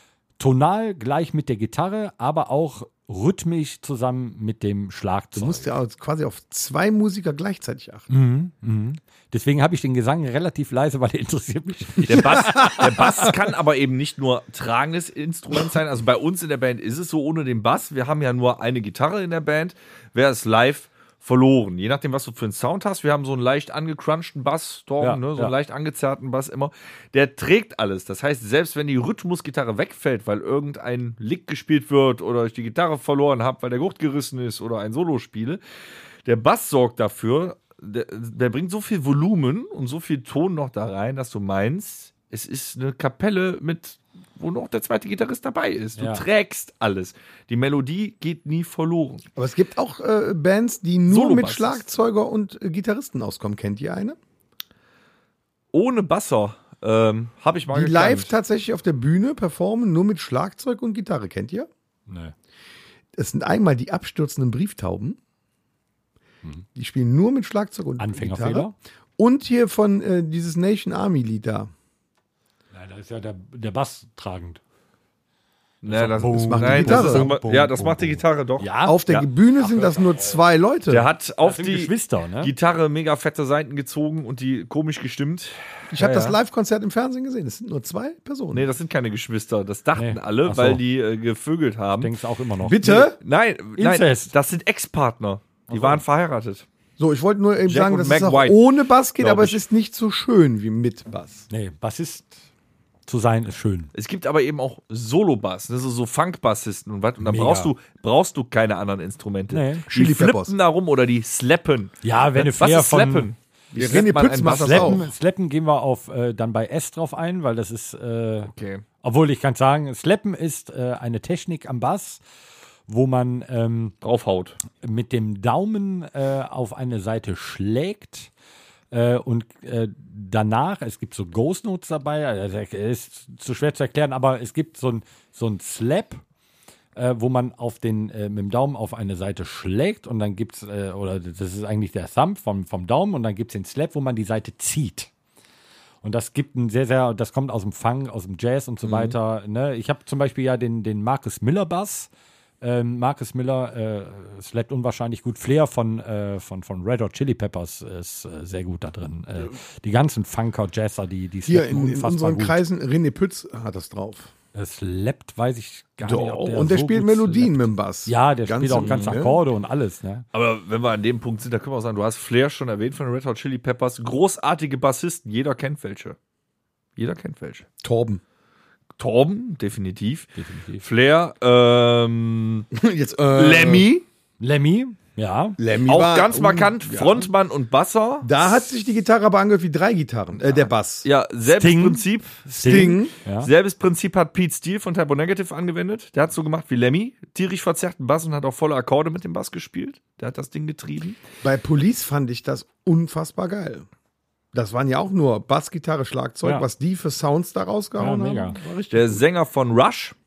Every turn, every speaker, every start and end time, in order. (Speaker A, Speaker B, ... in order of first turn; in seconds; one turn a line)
Speaker A: 0.4-5.7
Speaker B: 5.4-8.1
Speaker A: 8.1-12.9
Speaker C: 12.1-35.6
Speaker B: 12.6-12.8
Speaker A: 25.0-25.5
Speaker C: 36.2-49.2
Speaker A: 46.0-46.2
Speaker B: 49.4-54.2
Speaker C: 51.1-51.8
Speaker C: 55.7-58.3
Speaker B: 57.7-61.7
Speaker A: 62.1-62.3
Speaker B: 63.1-65.2
Speaker B: 66.8-71.7
Speaker A: 68.0-68.7
Speaker A: 72.7-74.6
Speaker C: 75.8-79.3
Speaker A: 75.9-79.0
Speaker B: 76.3-77.3
Speaker B: 78.8-81.1
Speaker A: 79.6-80.4
Speaker C: 80.9-86.4
Speaker A: 81.4-82.5
Speaker B: 85.9-88.7
Speaker C: 88.5-92.1
Speaker A: 90.0-90.8
Speaker A: 92.0-92.8
Speaker B: 92.6-93.2
Speaker C: 92.7-96.7
Speaker A: 93.8-94.3
Speaker A: 95.7-96.0
Speaker B: 97.0-101.5
Speaker C: 97.7-98.6
Speaker C: 99.2-99.6
Speaker A: 101.5-102.4
Speaker A: 103.1-103.9
Speaker C: 103.9-115.1
Speaker A: 107.2-107.7
Speaker A: 109.5-109.9
Speaker B: 109.9-110.5
Speaker A: 112.0-113.3
Speaker B: 113.8-115.1
Speaker A: 114.5-122.2
Speaker C: 118.5-118.8
Speaker A: 122.9-124.0
Speaker C: 124.0-124.6
Speaker A: 124.8-128.3
Speaker A: 128.9-136.2
Speaker A: 137.0-145.1
Speaker A: 146.0-152.1
Speaker A: 152.6-162.6
Speaker B: 161.5-164.3
Speaker A: 164.6-170.3
Speaker B: 166.0-169.4
Speaker C: 168.7-169.2
Speaker C: 170.3-176.2
Speaker C: 177.0-177.7
Speaker B: 177.8-178.2
Speaker C: 179.0-182.7
Speaker A: 180.4-180.8
Speaker B: 182.7-183.9
Speaker C: 183.3-184.1
Speaker A: 184.4-185.6
Speaker B: 185.6-187.3
Speaker C: 185.9-188.3
Speaker B: 188.2-191.1
Speaker C: 191.0-201.2
Speaker A: 191.4-193.5
Speaker B: 192.6-193.1
Speaker B: 201.4-203.9
Speaker B: 204.5-209.2
Speaker A: 208.0-208.6
Speaker C: 208.6-210.2